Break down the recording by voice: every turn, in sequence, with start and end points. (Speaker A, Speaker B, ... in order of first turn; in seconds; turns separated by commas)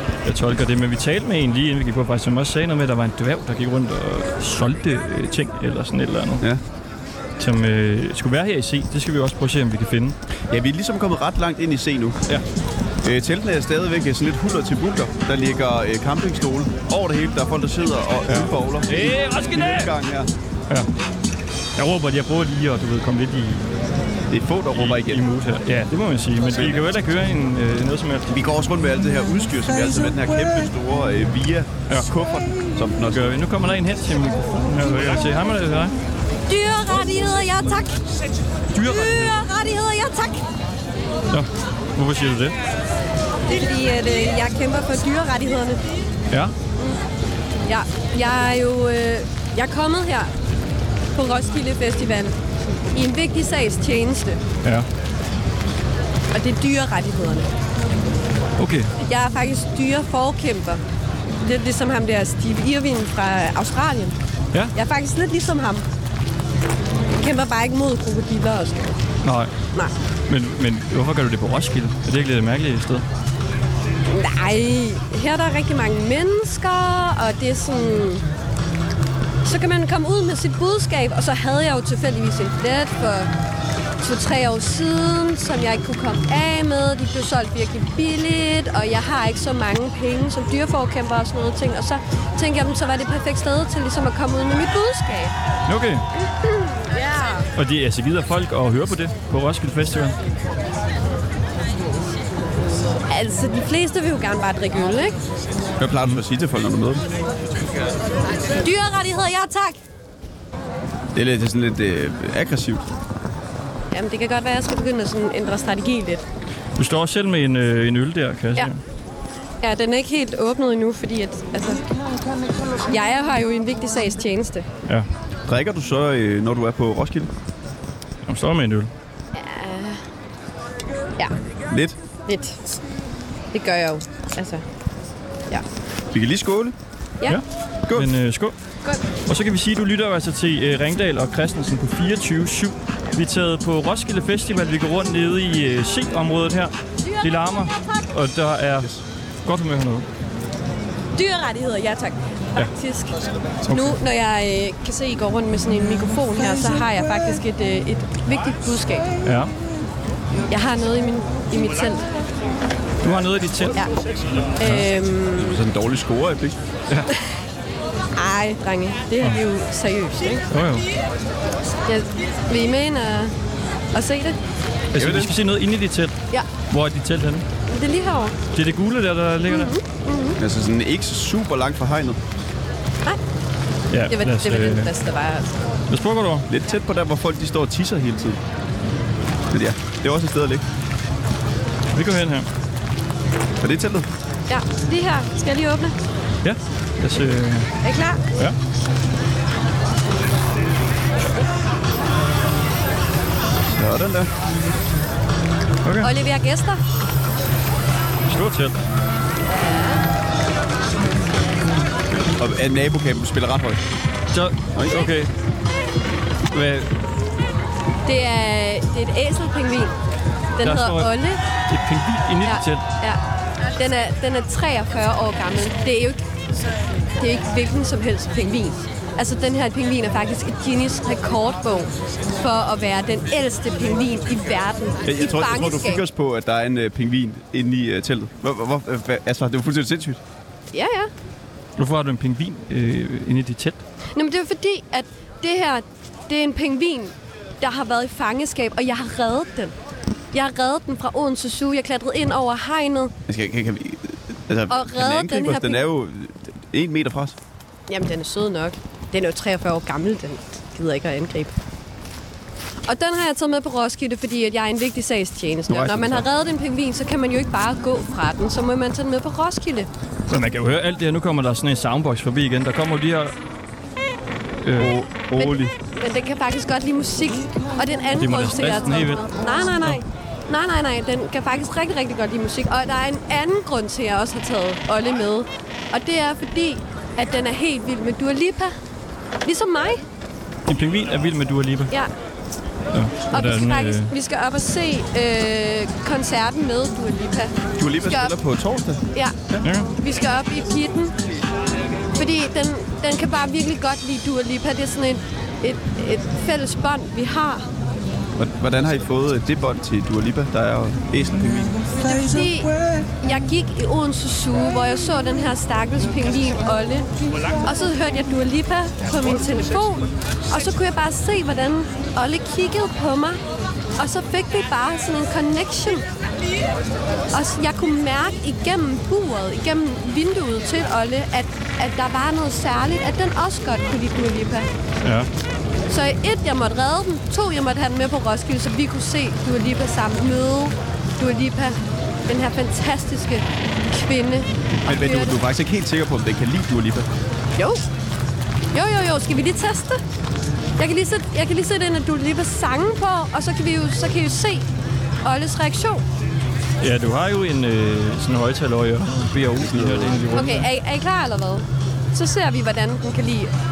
Speaker A: 0.2-6.5, Speaker A: 7.4-10.2, Speaker B: 10.5-12.2, Speaker B: 13.0-20.3, Speaker A: 18.3-19.9, Speaker A: 21.8-23.7, Speaker B: 24.3-25.2, Speaker A: 24.7-28.3, Speaker B: 26.5-26.9, Speaker B: 28.3-33.4, Speaker A: 33.1-36.0, Speaker C: 36.5-38.0, Speaker A: 38.7-39.4, Speaker C: 38.8-40.4, Speaker A: 41.3-42.6, Speaker C: 43.5-45.9, Speaker C: 47.7-50.3, Speaker C: 51.1-52.4, Speaker C: 52.9-54.4, Speaker C: 56.3-57.5, Speaker A: 58.6-58.9, Speaker C: 59.0-60.8, Speaker C: 61.4-64.2, Speaker C: 64.7-65.9, Speaker C: 67.2-69.0, Speaker A: 69.2-69.5, Speaker A: 70.3-73.0, Speaker C: 74.1-78.2, Speaker C: 79.4-83.3, Speaker C: 84.0-95.3, Speaker A: 95.7-96.1, Speaker C: 96.2-97.5, Speaker A: 97.6-100.2, Speaker C: 103.1-105.2, Speaker B: 105.8-107.0, Speaker C: 108.6-109.8, Speaker B: 111.1-112.9, Speaker C: 113.9-116.2, Speaker A: 116.8-118.8, Speaker C: 119.6-121.8, Speaker C: 122.9-124.7, Speaker B: 125.5-127.3, Speaker A: 128.3-128.9, Speaker C: 129.3-130.0, Speaker B: 131.7-132.0, Speaker C: 132.3-132.6, Speaker C: 133.5-134.6, Speaker B: 136.1-136.7, Speaker A: 137.9-138.6, Speaker A: 139.3-148.9, Speaker C: 147.0-148.1, Speaker A: 149.4-150.1, Speaker C: 151.1-153.2, Speaker C: 153.7-159.1, Speaker A: 153.7-154.0, Speaker A: 159.2-159.5, Speaker C: 160.5-162.1, Speaker A: 163.0-163.8, Speaker C: 164.6-165.6, Speaker A: 164.6-164.9, Speaker B: 165.4-166.6, Speaker C: 168.2-170.4, Speaker A: 170.5-170.9, Speaker C: 171.8-173.3, Speaker C: 173.9-174.4, Speaker A: 174.9-176.2, Speaker B: 174.9-175.3, Speaker A: 176.7-177.4, Speaker C: 177.7-178.4, Speaker A: 178.5-179.8, Speaker C: 179.5-180.4, Speaker B: 180.4-182.2, Speaker A: 183.9-184.9, Speaker C: 184.1-185.6, Speaker A: 185.9-186.5, Speaker B: 186.5-188.4, Speaker B: 189.5-190.6, Speaker A: 191.9-192.5, Speaker B: 193.6-194.1, Speaker C: 194.5-195.9, Speaker A: 196.4-197.7, Speaker C: 197.8-198.4, Speaker B: 203.7-204.3, Speaker A: 205.8-206.1, Speaker C: 206.0-206.8, Speaker A: 208.3-208.8, Speaker C: 209.5-210.0, Speaker B: 212.4-213.8, Speaker A: 214.3-215.3, Speaker A: 216.5-217.0, Speaker C: 218.1-219.9, Speaker C: 220.6-221.4, Speaker A: 220.6-221.1, Speaker A: 221.7-222.8, Speaker C: 222.4-223.2, Speaker C: 223.8-226.2, Speaker C: 227.2-236.0, Speaker B: 235.0-240.2, Speaker C: 240.7-241.1, Speaker A: 241.8-243.8, Speaker C: 244.2-249.7, Speaker C: 250.3-253.1, Speaker B: 253.3-257.4, Speaker C: 254.7-255.8, Speaker C: 257.9-261.5, Speaker C: 262.9-269.9, Speaker B: 265.7-266.3, Speaker A: 270.3-273.3, Speaker A: 274.6-274.9, Speaker B: 274.8-275.7, Speaker C: 275.4-288.7, Speaker A: 278.1-279.3, Speaker C: 289.4-290.0, Speaker A: 290.7-291.9, Speaker A: 292.9-294.1, Speaker C: 293.3-298.4, Speaker B: 297.8-299.7, Speaker A: 299.6-299.9, Speaker C: 300.0-301.1, Speaker C: 302.1-307.7, Speaker B: 308.4-311.8, Speaker C: 311.9-317.1, Speaker C: 317.6-323.4, Speaker C: 324.0-326.1, Speaker C: 327.3-334.7, Speaker A: 335.0-335.3, Speaker C: 335.9-345.4, Speaker B: 344.7-347.1, Speaker C: 347.6-347.9, Speaker C: 348.7-350.0, Speaker C: 350.8-354.7, Speaker C: 355.2-356.0, Speaker A: 356.8-360.7, Speaker B: 359.6-360.3, Speaker C: 360.3-363.5